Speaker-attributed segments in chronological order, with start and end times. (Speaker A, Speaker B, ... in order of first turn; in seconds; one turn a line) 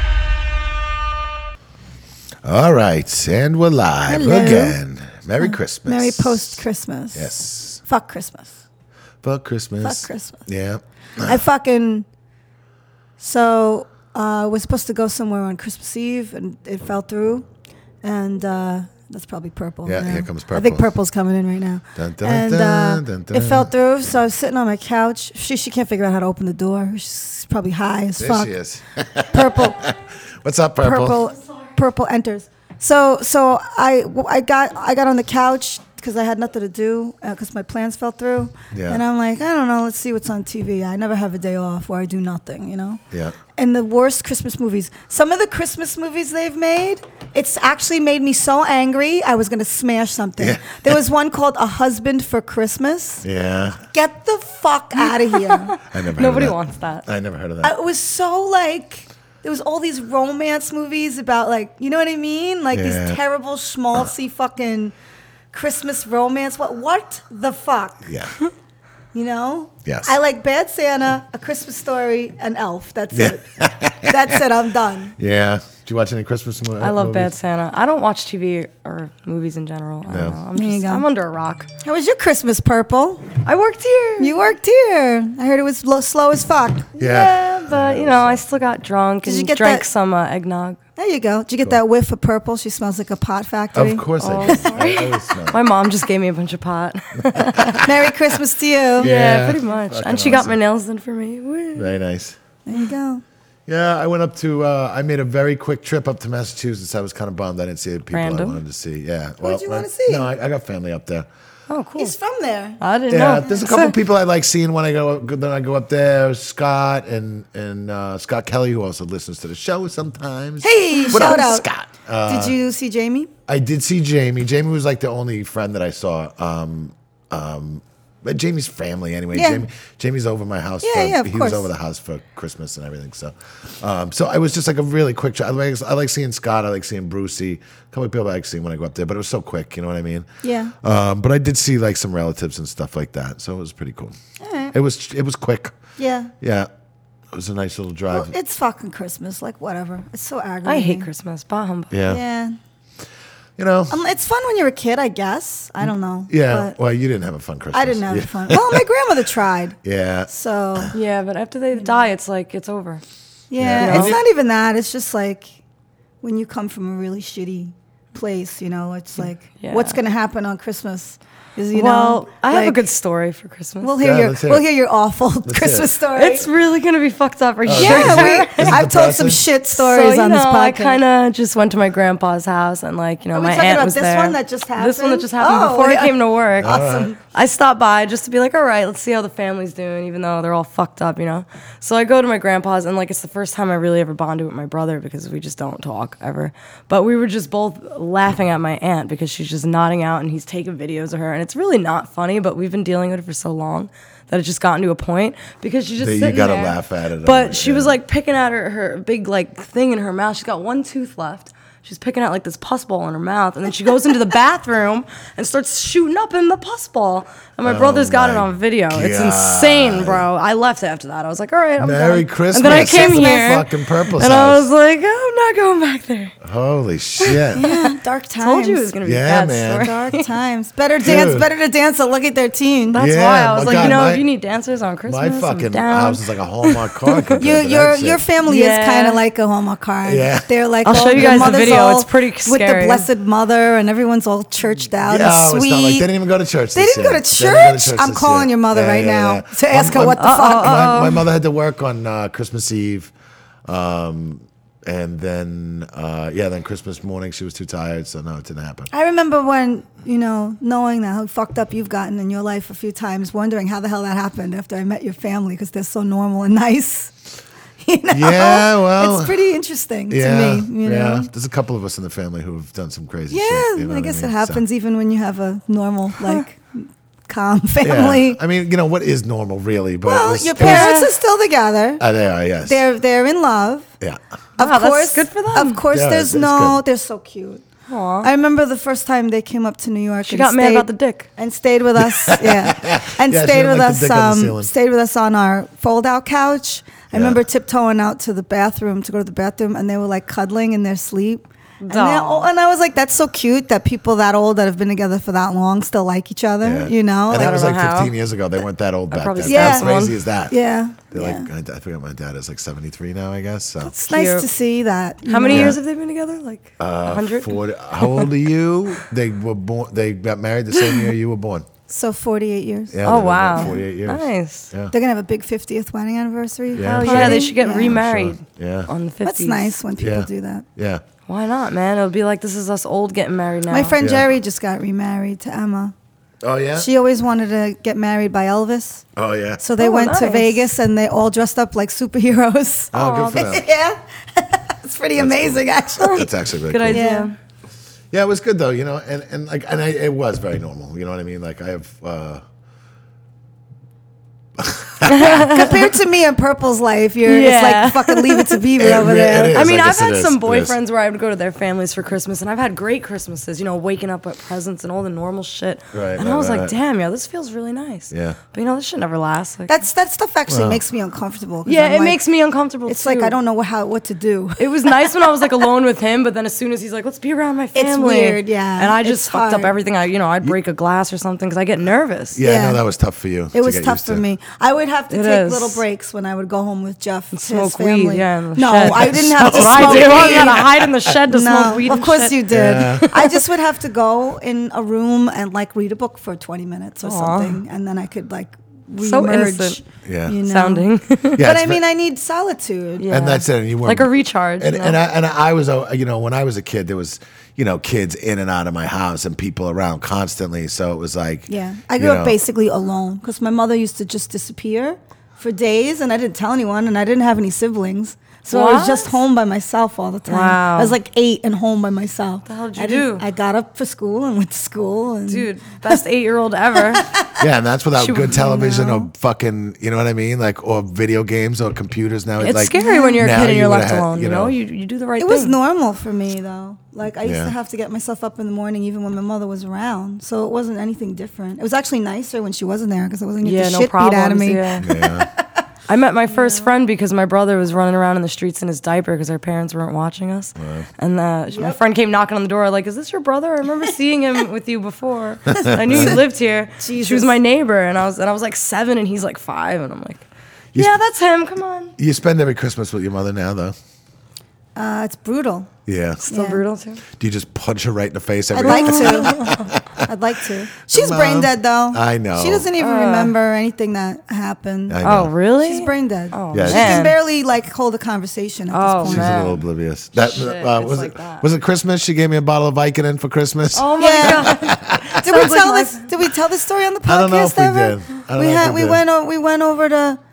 Speaker A: 2.4-6.6
Speaker B: 4.1-4.8
Speaker B: 5.4-8.6
Speaker A: 7.1-7.8
Speaker A: 9.2-11.4
Speaker B: 9.8-10.5
Speaker B: 11.2-12.1
Speaker B: 13.2-17.4
Speaker B: 18.0-28.5
Speaker A: 19.8-20.8
Speaker A: 21.9-23.7
Speaker A: 28.2-31.2
Speaker B: 29.3-29.8
Speaker B: 30.8-43.0
Speaker A: 38.7-39.0
Speaker B: 43.5-53.2
Speaker A: 50.4-51.0
Speaker A: 53.2-53.8
Speaker B: 53.9-55.7
Speaker C: 55.0-57.0
Speaker A: 55.9-57.7
Speaker B: 57.6-64.9
Speaker A: 62.7-63.2
Speaker B: 65.5-68.1
Speaker A: 68.0-68.3
Speaker B: 69.1-73.4
Speaker A: 69.8-70.1
Speaker A: 73.1-74.4
Speaker B: 74.0-75.2
Speaker A: 75.2-77.3
Speaker C: 76.8-81.7
Speaker A: 80.1-80.4
Speaker B: 80.5-81.0
Speaker B: 81.8-83.3
Speaker C: 83.4-84.4
Speaker B: 84.2-86.9
Speaker C: 87.0-90.8
Speaker A: 87.0-88.4
Speaker B: 89.2-89.9
Speaker B: 91.0-94.8
Speaker A: 93.7-95.6
Speaker C: 94.2-97.8
Speaker A: 97.3-98.1
Speaker B: 97.8-99.1
Speaker A: 99.0-100.5
Speaker C: 99.0-101.9
Speaker A: 101.7-102.3
Speaker B: 102.7-103.2
Speaker A: 103.7-111.3
Speaker C: 108.1-108.6
Speaker B: 109.4-110.3
Speaker C: 111.7-112.2
Speaker B: 112.0-112.8
Speaker C: 112.8-114.0
Speaker A: 113.1-122.5
Speaker B: 113.3-113.7
Speaker B: 120.6-121.7
Speaker B: 122.2-123.3
Speaker A: 123.5-140.3
Speaker B: 129.3-129.6
Speaker B: 130.8-131.7
Speaker B: 140.4-140.7
Speaker A: 140.8-144.1
Speaker B: 144.4-144.7
Speaker A: 144.7-145.7
Speaker B: 146.0-146.3
Speaker A: 146.4-146.7
Speaker A: 147.3-148.3
Speaker B: 148.1-151.1
Speaker C: 150.6-151.9
Speaker A: 151.9-152.2
Speaker B: 152.1-152.6
Speaker A: 153.6-153.9
Speaker B: 153.9-156.7
Speaker A: 156.3-158.8
Speaker B: 157.7-160.9
Speaker A: 159.8-160.9
Speaker C: 160.9-163.0
Speaker B: 161.7-162.1
Speaker B: 163.5-165.5
Speaker A: 163.6-164.2
Speaker C: 163.8-164.2
Speaker B: 166.2-172.8
Speaker C: 169.6-170.0
Speaker C: 171.7-174.0
Speaker B: 173.8-176.5
Speaker A: 174.0-174.7
Speaker A: 175.4-176.0
Speaker C: 176.1-178.8
Speaker A: 177.6-179.4
Speaker B: 177.7-181.0
Speaker C: 179.7-226.3
Speaker B: 183.3-187.1
Speaker A: 186.6-187.1
Speaker A: 206.0-207.9
Speaker A: 217.6-220.2
Speaker A: 221.8-224.7
Speaker B: 222.6-223.5
Speaker A: 226.4-227.6
Speaker C: 227.2-230.2
Speaker B: 227.5-228.9
Speaker A: 229.0-229.9
Speaker B: 229.7-233.0
Speaker A: 231.0-231.5
Speaker C: 232.9-237.4
Speaker A: 232.9-234.2
Speaker A: 235.1-238.2
Speaker B: 237.4-246.1
Speaker C: 238.4-239.2
Speaker A: 240.0-240.5
Speaker C: 240.8-243.1
Speaker A: 241.1-241.8
Speaker A: 245.0-253.1
Speaker B: 246.7-251.1
Speaker C: 250.2-251.2
Speaker A: 253.7-258.9
Speaker B: 258.9-267.1
Speaker B: 267.8-271.3
Speaker A: 268.1-269.4
Speaker A: 270.1-274.6
Speaker B: 273.3-278.4
Speaker A: 277.8-281.0
Speaker B: 280.0-282.0
Speaker C: 280.6-281.1
Speaker A: 282.0-282.8
Speaker B: 282.6-283.9
Speaker B: 284.6-287.6
Speaker C: 284.6-285.8
Speaker A: 285.9-286.8
Speaker C: 287.9-288.3
Speaker B: 288.2-307.7
Speaker C: 290.2-291.3
Speaker A: 292.0-294.7
Speaker A: 297.1-297.4
Speaker C: 301.8-302.5
Speaker A: 306.6-310.5
Speaker C: 307.3-308.1
Speaker C: 309.1-310.1
Speaker B: 309.4-311.5
Speaker A: 311.1-313.9
Speaker C: 313.8-314.5
Speaker B: 314.0-315.8
Speaker C: 315.2-318.3
Speaker A: 315.5-315.8
Speaker A: 316.8-321.7
Speaker B: 321.9-323.8
Speaker A: 322.9-324.9
Speaker C: 323.1-324.7
Speaker B: 324.9-327.9
Speaker A: 326.7-328.9
Speaker C: 326.8-329.8
Speaker B: 329.2-330.6
Speaker A: 330.0-331.0
Speaker C: 331.3-333.9
Speaker B: 333.7-335.9
Speaker A: 334.0-334.3
Speaker A: 336.4-336.9
Speaker B: 336.8-339.0
Speaker A: 339.1-339.6
Speaker B: 339.6-346.2
Speaker C: 339.8-340.6
Speaker A: 342.9-343.6
Speaker C: 342.9-343.6
Speaker A: 345.2-347.1
Speaker C: 346.0-347.3
Speaker B: 346.9-347.3
Speaker A: 348.1-352.4
Speaker A: 354.6-355.7
Speaker C: 355.1-355.9
Speaker B: 355.2-359.6
Speaker C: 357.2-358.6
Speaker A: 358.8-360.8
Speaker C: 359.5-369.8
Speaker A: 365.9-366.7
Speaker A: 368.1-368.4
Speaker B: 369.7-372.2
Speaker A: 370.5-370.8
Speaker C: 371.6-373.4
Speaker B: 372.9-375.6
Speaker C: 374.6-382.4
Speaker B: 377.7-379.7
Speaker A: 382.3-384.2
Speaker B: 382.4-382.8
Speaker B: 383.5-390.6
Speaker C: 385.1-385.8
Speaker C: 387.3-393.4
Speaker A: 388.9-391.1
Speaker B: 391.3-403.1
Speaker A: 392.5-393.2
Speaker C: 397.0-397.6
Speaker C: 399.0-399.8
Speaker A: 400.0-400.4
Speaker C: 400.4-401.4
Speaker A: 401.4-401.8
Speaker C: 403.0-405.0
Speaker A: 403.1-412.4
Speaker B: 411.5-426.0
Speaker C: 418.5-419.2
Speaker C: 420.3-420.9
Speaker C: 422.5-423.2
Speaker C: 425.3-427.1
Speaker B: 426.8-427.4
Speaker A: 427.4-434.6
Speaker C: 428.0-428.9
Speaker B: 428.4-429.1
Speaker C: 432.4-435.5
Speaker B: 432.7-433.2
Speaker B: 435.2-445.2
Speaker A: 437.2-437.5
Speaker C: 443.4-444.9
Speaker A: 444.8-445.3
Speaker C: 445.9-460.2
Speaker B: 446.3-446.7
Speaker A: 450.6-450.9
Speaker B: 451.5-451.8
Speaker A: 455.5-456.2
Speaker B: 455.6-456.2
Speaker B: 456.8-457.3
Speaker C: 460.7-461.9
Speaker A: 462.0-463.7
Speaker B: 464.8-465.7
Speaker A: 465.9-466.2
Speaker C: 466.2-467.0
Speaker B: 466.3-466.6
Speaker A: 467.1-470.1
Speaker B: 468.5-479.4
Speaker C: 468.6-469.3
Speaker A: 470.9-472.7
Speaker C: 472.8-473.3
Speaker A: 474.9-475.3
Speaker C: 475.0-477.2
Speaker A: 476.5-477.0
Speaker C: 478.7-479.6
Speaker A: 479.0-485.5
Speaker C: 480.1-481.4
Speaker C: 483.7-486.1
Speaker B: 484.0-490.2
Speaker A: 487.1-489.0